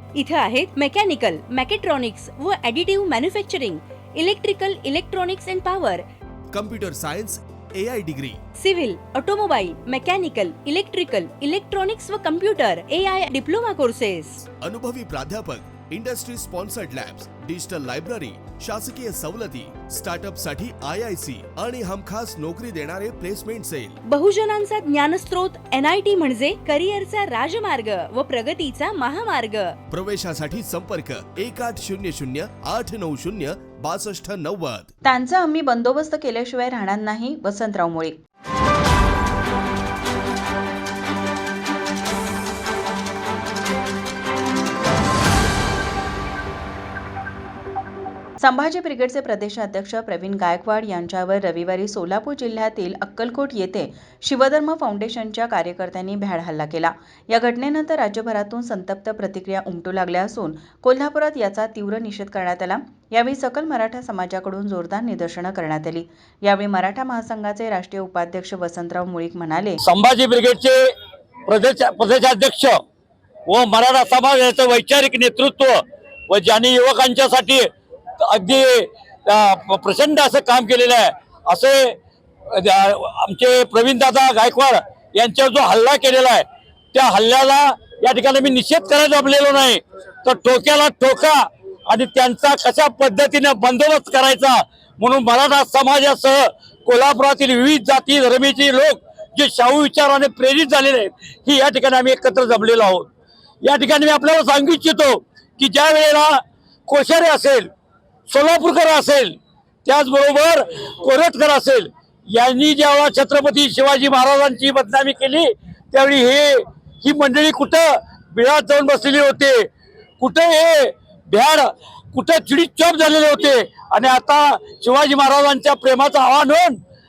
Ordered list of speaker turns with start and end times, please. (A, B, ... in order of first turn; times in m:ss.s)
0:00.2-0:06.0 A
0:06.5-0:08.4 B
0:08.6-0:14.4 A
0:14.6-0:24.0 B
0:24.1-0:29.8 A
0:29.9-0:34.9 B
0:35.0-0:38.2 C
0:48.4-1:09.8 C
1:09.8-1:10.8 D
1:11.5-1:12.8 D
1:13.5-1:17.7 D
1:18.2-1:43.1 D
1:43.6-1:47.7 D
1:48.3-1:59.7 D
2:00.2-2:06.8 D